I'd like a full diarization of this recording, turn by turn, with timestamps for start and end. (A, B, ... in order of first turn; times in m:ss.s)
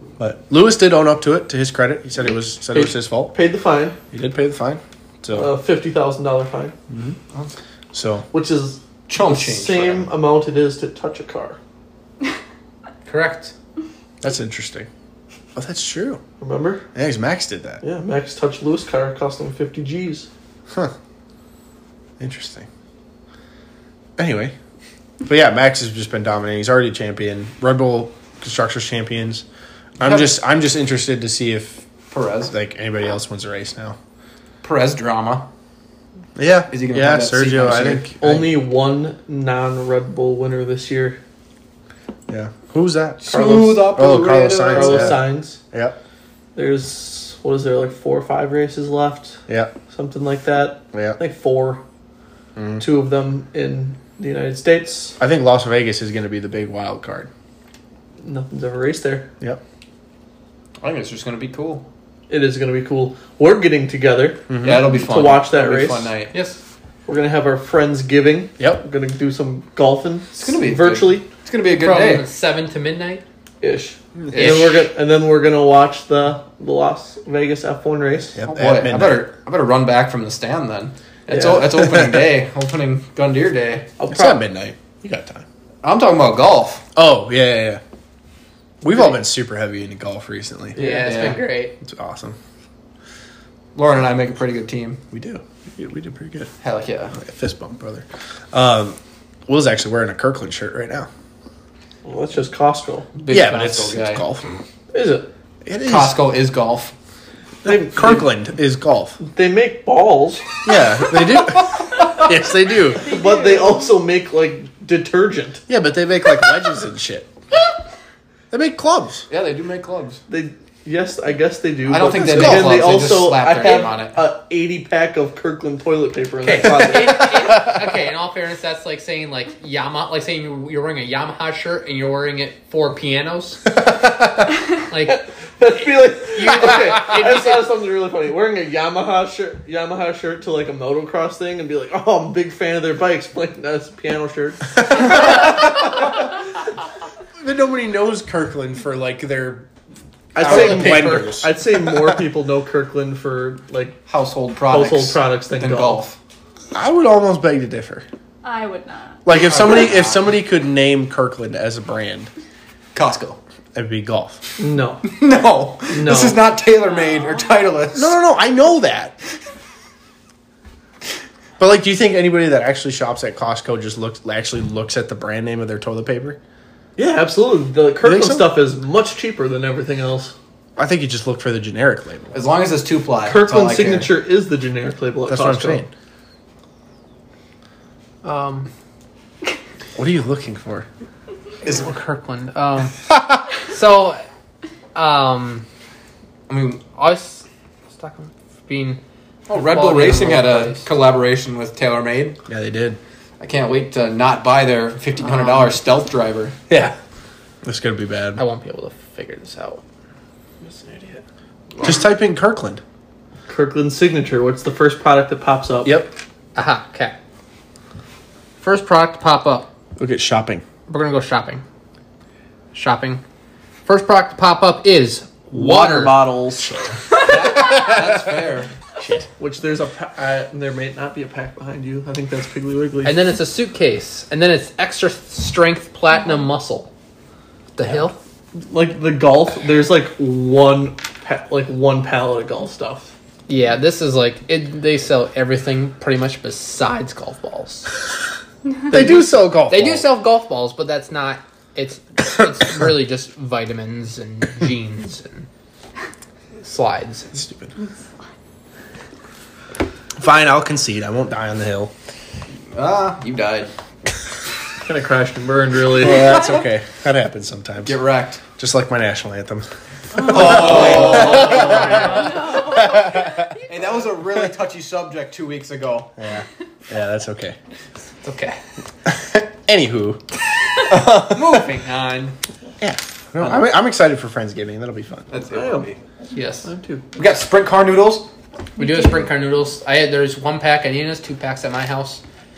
0:00.2-0:03.3 A
0:02.7-0:04.0 B
0:04.1-0:05.5 A
0:05.3-0:06.7 B
0:06.9-0:07.2 A
0:07.9-0:08.3 A
0:08.3-0:11.6 B
0:09.1-0:10.1 C
0:13.0-0:13.5 D
0:14.2-0:14.9 A
0:15.5-0:16.2 A
0:16.4-0:16.8 B
0:16.9-0:17.8 A
0:17.8-0:20.3 B
0:22.2-0:22.7 A
0:24.2-0:24.5 A
0:25.2-0:29.4 A
0:30.0-0:31.9 A
0:30.0-0:30.3 C
0:32.1-0:32.5 C
0:32.5-0:34.0 A
0:34.6-0:35.5 C
0:36.4-0:38.6 A
0:36.7-0:38.1 C
0:38.2-0:41.2 B
0:42.3-0:46.0 A
0:43.2-0:45.2 C
0:43.3-0:44.0 B
0:44.7-0:45.6 B
0:46.5-0:51.8 B
0:49.5-0:49.7 A
0:50.9-0:51.2 A
0:52.6-0:52.8 A
0:52.8-0:55.2 B
0:55.2-0:57.3 A
0:58.2-0:59.3 B
1:00.8-1:01.9 C
1:02.3-1:06.1 B
1:04.5-1:05.0 A
1:04.6-1:06.3 C
1:06.3-1:06.6 D
1:07.0-1:11.2 B
1:08.6-1:08.8 A
1:10.3-1:12.2 C
1:11.8-1:13.2 D
1:13.6-1:18.4 B
1:14.3-1:14.8 C
1:18.3-1:19.3 A
1:18.5-1:23.9 C
1:21.3-1:21.7 B
1:24.0-1:24.4 B
1:24.1-1:25.4 A
1:25.8-1:26.8 C
1:27.0-1:27.8 A
1:28.8-1:30.8 A
1:30.8-1:31.7 D
1:30.8-1:31.4 B
1:30.9-1:31.4 C
1:31.8-1:32.4 A
1:33.7-1:35.0 C
1:35.1-1:36.5 A
1:36.6-1:37.2 C
1:37.1-1:41.1 A
1:42.0-1:43.1 B
1:43.1-1:44.2 C
1:43.3-1:44.4 A
1:44.9-1:45.3 B
1:45.6-1:46.2 A
1:45.8-1:46.9 C
1:47.6-1:48.3 B
1:47.6-1:49.2 A
1:49.2-1:50.5 B
1:50.6-1:53.1 A
1:53.0-1:55.6 B
1:53.2-1:53.7 E
1:55.7-1:57.3 A
1:58.5-1:59.2 A
1:59.3-2:00.2 C
2:00.3-2:07.5 B
2:01.9-2:04.2 C
2:06.4-2:13.7 D
2:07.0-2:07.8 A
2:14.8-2:15.2 D
2:15.0-2:25.4 B
2:15.8-2:17.7 D
2:24.9-2:26.3 A
2:27.4-2:29.7 A
2:30.3-2:32.2 A
2:30.3-2:34.0 B
2:30.4-2:31.0 C
2:34.1-2:36.2 C
2:34.7-2:36.0 B
2:36.7-2:38.0 A
2:38.4-2:39.2 E
2:39.2-2:42.3 A
2:39.4-2:40.3 C
2:42.9-2:43.4 C
2:43.7-2:44.4 A
2:44.6-2:45.0 B
2:45.0-2:48.2 C
2:45.9-2:46.4 B
2:47.9-2:49.2 A
2:51.6-2:56.4 A
2:57.0-3:00.3 B
2:58.0-2:58.6 A
3:00.8-3:02.4 A
3:02.3-3:04.2 C
3:03.2-3:05.8 B
3:05.3-3:05.9 A
3:08.2-3:08.7 D
3:10.0-3:10.9 A
3:11.6-3:14.2 D
3:14.9-3:15.6 D
3:16.5-3:16.8 C
3:16.9-3:20.8 D
3:19.5-3:22.4 C
3:22.5-3:23.0 A
3:23.4-3:26.6 C
3:25.2-3:25.7 D
3:26.7-3:27.0 A
3:27.6-3:28.4 A
3:28.4-3:29.8 D
3:30.6-3:31.2 D
3:31.8-3:32.8 A
3:33.5-3:36.0 B
3:35.8-3:36.2 A
3:36.5-3:37.2 D
3:38.6-3:39.7 D
3:40.0-3:40.6 A
3:40.9-3:41.6 D
3:42.7-3:43.2 D
3:43.8-3:46.3 D
3:45.5-3:46.9 B
3:47.2-3:48.7 C
3:47.7-3:48.0 A
3:49.0-3:49.3 A
3:49.4-3:53.3 B
3:53.0-3:56.9 D
3:57.8-3:58.2 D
3:58.6-4:03.1 B
4:03.5-4:07.9 D
4:08.9-4:10.1 A
4:08.9-4:15.5 D
4:16.6-4:17.4 D
4:17.3-4:17.7 A
4:20.2-4:21.9 A
4:22.7-4:23.7 C
4:24.8-4:26.5 B
4:25.9-4:28.0 A
4:27.8-4:28.4 C
4:28.6-4:33.5 A
4:30.2-4:32.4 C
4:30.7-4:32.2 D
4:31.9-4:33.4 E
4:33.6-4:36.1 C
4:36.2-4:37.6 A
4:38.2-4:38.6 D
4:39.0-4:41.7 A
4:41.3-4:42.3 D
4:42.8-4:45.3 A
4:43.4-4:43.6 C
4:45.3-4:46.0 C
4:45.5-4:45.9 B
4:46.3-4:46.7 D
4:46.6-4:47.0 B
4:47.1-4:48.3 C
4:48.8-4:52.2 D
4:48.8-4:49.2 E